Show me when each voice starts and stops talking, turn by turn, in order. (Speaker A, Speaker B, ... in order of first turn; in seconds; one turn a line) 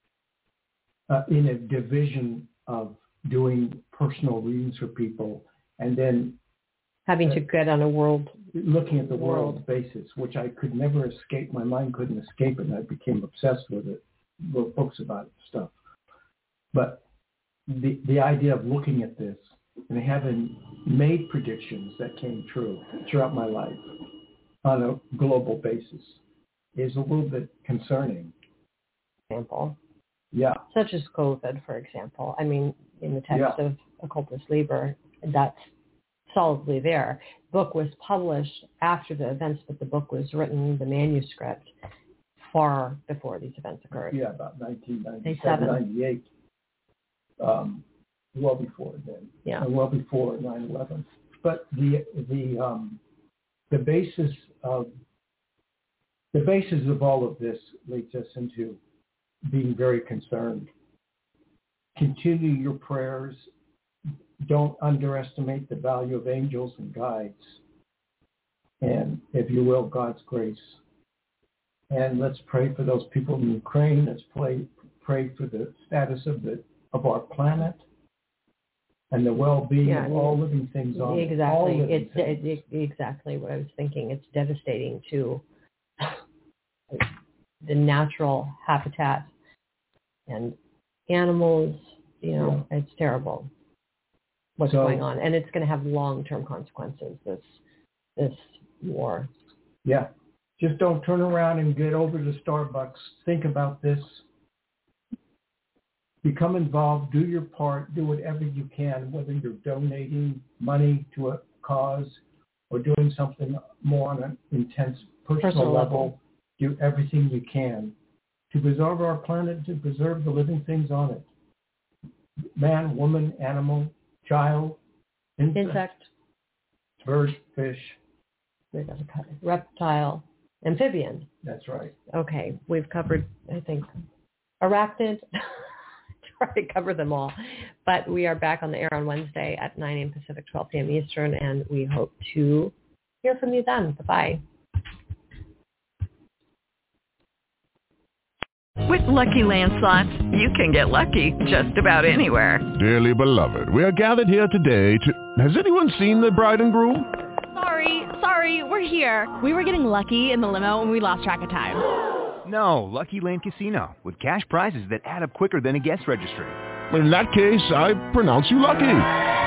Speaker A: 1.1-6.4
Speaker B: 7.1-9.6
Speaker A: 8.5-15.7
Speaker A: 16.7-17.0
Speaker A: 17.7-23.9
Speaker A: 24.6-26.2
Speaker A: 26.8-28.3
Speaker B: 29.3-29.8
Speaker A: 30.3-30.6
Speaker B: 30.7-35.7
Speaker A: 33.3-33.6
Speaker B: 36.3-41.7
Speaker B: 42.5-44.2
Speaker A: 44.1-46.3
Speaker B: 45.2-45.8
Speaker A: 47.4-53.0
Speaker A: 53.7-54.9
Speaker A: 56.3-58.8
Speaker A: 59.5-60.7
Speaker A: 62.0-63.5
Speaker A: 64.4-67.6
Speaker A: 68.8-70.8
Speaker A: 71.9-77.8
Speaker A: 79.1-82.6
Speaker B: 79.8-80.4
Speaker B: 81.0-85.4
Speaker B: 87.6-89.3
Speaker B: 90.3-90.5
Speaker B: 91.1-93.5
Speaker A: 92.4-92.6
Speaker B: 94.6-97.6
Speaker A: 94.6-95.0
Speaker B: 98.2-99.3
Speaker A: 99.8-104.2
Speaker A: 106.2-118.0
Speaker B: 115.4-116.1
Speaker A: 118.5-121.3
Speaker A: 122.6-124.8
Speaker A: 125.4-125.9
Speaker B: 125.5-126.1
Speaker A: 127.0-128.0
Speaker B: 128.7-131.3
Speaker A: 131.4-131.9
Speaker B: 132.1-133.9
Speaker B: 134.6-135.2
Speaker B: 136.3-144.4
Speaker C: 148.8-152.7
Speaker D: 152.8-157.1
Speaker E: 157.5-161.8
Speaker F: 162.4-166.6
Speaker D: 166.9-169.1